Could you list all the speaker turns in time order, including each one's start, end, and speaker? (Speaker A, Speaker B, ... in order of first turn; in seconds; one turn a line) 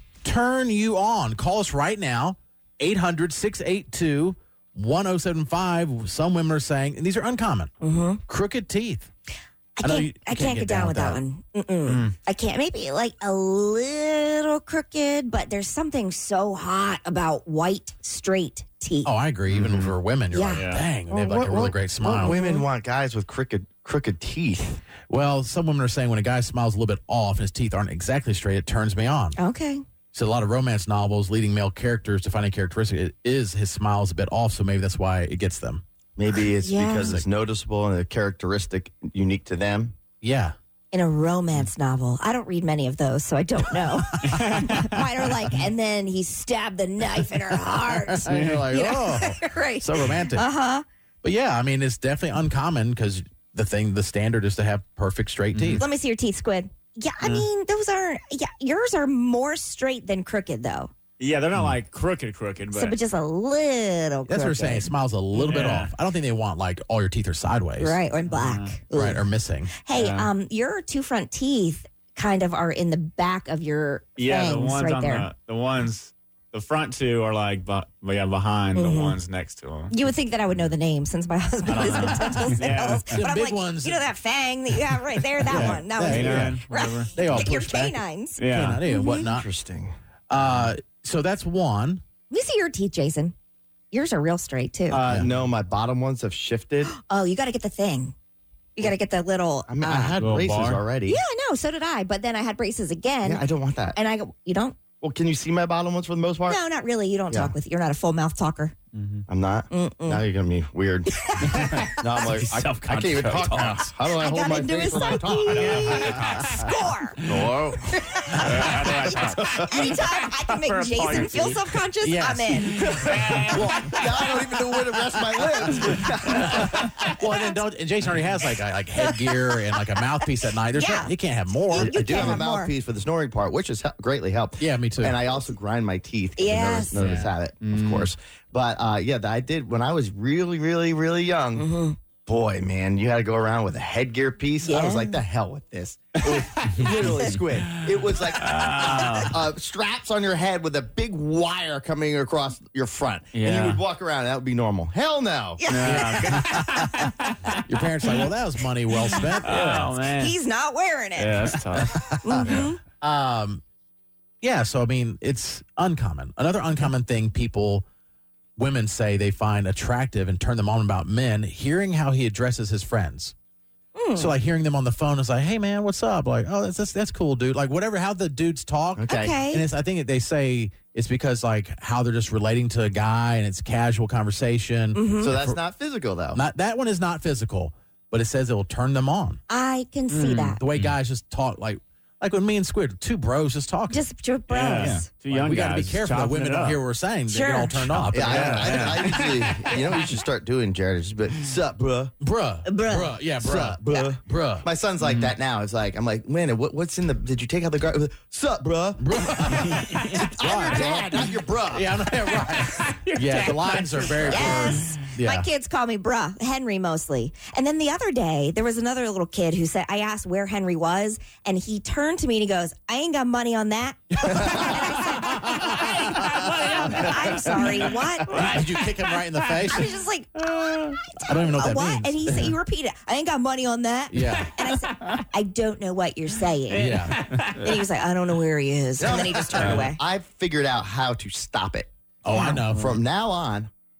Speaker A: 0.2-7.7
Speaker B: 7.8-8.2
Speaker A: 8.3-9.1
Speaker B: 9.8-19.1
Speaker A: 9.8-11.2
Speaker C: 11.9-12.1
Speaker A: 19.1-22.4
Speaker C: 19.5-19.9
Speaker B: 20.3-20.7
Speaker C: 20.5-20.9
Speaker D: 21.1-24.8
Speaker B: 22.2-22.6
Speaker A: 25.1-29.4
Speaker B: 29.4-29.8
Speaker A: 30.1-35.8
Speaker D: 36.2-40.0
Speaker B: 36.6-37.1
Speaker A: 40.2-40.5
Speaker B: 40.9-50.8
Speaker A: 44.3-44.6
Speaker C: 44.3-44.9
Speaker A: 48.1-50.5
Speaker C: 48.2-48.7
Speaker A: 51.2-55.9
Speaker C: 55.5-55.8
Speaker B: 55.8-60.9
Speaker C: 61.2-63.0
Speaker B: 62.7-64.9
Speaker A: 64.3-68.0
Speaker C: 65.4-65.9
Speaker B: 67.8-69.2
Speaker C: 68.3-68.8
Speaker A: 68.9-69.7
Speaker B: 69.8-75.3
Speaker C: 69.9-70.3
Speaker C: 74.2-79.9
Speaker B: 78.8-79.2
Speaker B: 79.9-89.2
Speaker A: 81.7-84.0
Speaker C: 81.8-83.1
Speaker A: 85.5-86.6
Speaker C: 85.5-87.2
Speaker A: 87.2-89.5
Speaker C: 88.4-88.8
Speaker D: 89.1-89.9
Speaker A: 90.3-92.0
Speaker B: 92.3-93.3
Speaker B: 93.9-95.1
Speaker D: 94.9-96.9
Speaker B: 96.9-98.1
Speaker B: 98.8-100.2
Speaker D: 99.7-101.2
Speaker C: 100.2-100.9
Speaker B: 101.1-104.8
Speaker D: 103.2-104.0
Speaker D: 105.0-106.6
Speaker B: 106.5-108.8
Speaker C: 109.0-109.2
Speaker D: 109.3-116.1
Speaker B: 109.7-110.2
Speaker B: 111.1-112.2
Speaker C: 111.5-113.9
Speaker B: 114.1-123.6
Speaker C: 115.5-117.5
Speaker D: 117.3-117.9
Speaker C: 118.3-121.7
Speaker D: 119.2-119.9
Speaker A: 122.0-123.6
Speaker C: 122.9-124.0
Speaker D: 123.4-126.8
Speaker A: 126.0-132.4
Speaker B: 129.3-129.6
Speaker B: 130.7-131.1
Speaker B: 131.7-132.7
Speaker D: 131.7-141.7
Speaker A: 134.6-135.2
Speaker B: 136.4-137.2
Speaker C: 137.0-138.1
Speaker B: 141.6-142.0
Speaker D: 142.3-155.6
Speaker B: 144.6-145.2
Speaker C: 146.2-147.0
Speaker C: 148.4-149.4
Speaker C: 153.3-153.8
Speaker B: 155.6-156.6
Speaker C: 155.7-157.6
Speaker A: 155.8-157.1
Speaker A: 157.7-159.9
Speaker C: 159.4-160.4
Speaker B: 160.1-161.6
Speaker C: 161.2-162.0
Speaker A: 161.8-163.6
Speaker B: 162.2-162.8
Speaker A: 164.4-167.9
Speaker A: 168.6-173.3
Speaker B: 174.0-174.3
Speaker A: 174.2-185.6
Speaker D: 179.0-179.4
Speaker B: 179.1-179.7
Speaker B: 184.9-185.3
Speaker D: 185.2-186.4
Speaker A: 186.3-189.4
Speaker B: 189.5-190.6
Speaker C: 190.1-190.9
Speaker A: 190.6-194.1
Speaker B: 193.9-195.1
Speaker C: 194.5-196.8
Speaker A: 195.3-198.9
Speaker B: 197.3-198.1
Speaker D: 198.1-202.1
Speaker C: 198.2-199.9
Speaker A: 202.2-204.7
Speaker B: 202.7-203.1
Speaker D: 203.4-212.0
Speaker C: 205.0-205.3
Speaker A: 209.0-215.5
Speaker C: 212.7-214.9
Speaker B: 214.2-228.6
Speaker A: 224.1-226.5
Speaker C: 225.4-229.5
Speaker A: 228.3-229.9
Speaker B: 229.7-240.0
Speaker A: 231.2-232.5
Speaker A: 234.1-234.6
Speaker C: 234.6-235.2
Speaker C: 236.7-237.8
Speaker A: 236.7-237.2
Speaker D: 239.0-241.9
Speaker C: 239.6-239.8
Speaker A: 242.2-243.0
Speaker B: 242.3-242.6
Speaker D: 242.7-243.7